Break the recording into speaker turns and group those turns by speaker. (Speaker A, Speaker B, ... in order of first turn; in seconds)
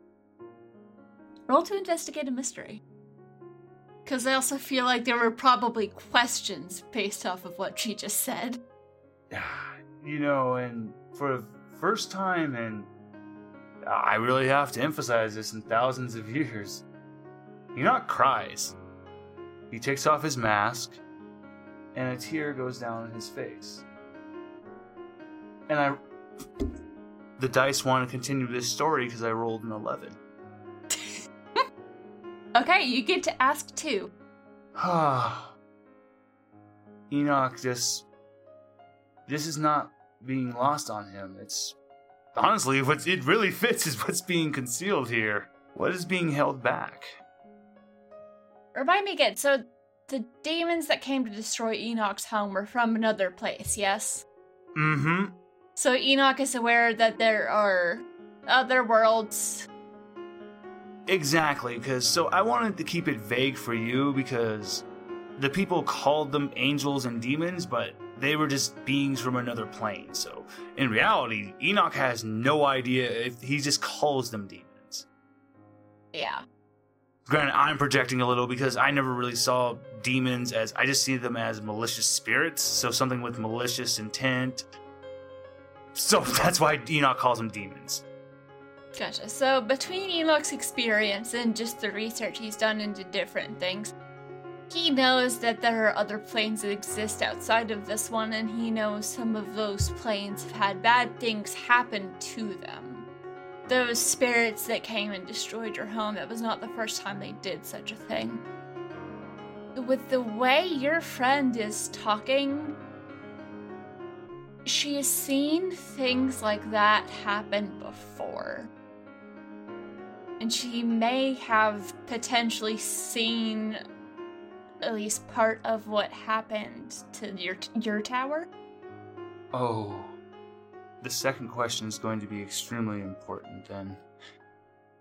Speaker A: 1.5-2.8, 4.0-8.6, 30.9-31.2, 32.5-34.1, 48.7-54.2, 55.8-59.7, 76.1-76.4, 88.9-93.9, 94.7-103.1, 103.7-108.4, 109.7-112.8, 114.7-118.7, 120.4-123.8, 124.8-128.5
Speaker B: 9.3-12.9, 13.8-16.8, 17.7-18.8, 19.7-21.0, 21.9-23.8, 25.7-26.0, 27.4-30.2, 34.8-35.5, 37.1-38.0, 39.2-41.8, 42.3-47.1, 54.7-55.4, 61.1-64.8, 65.4-75.0, 77.2-84.7, 85.9-88.0, 129.5-130.2, 131.0-134.0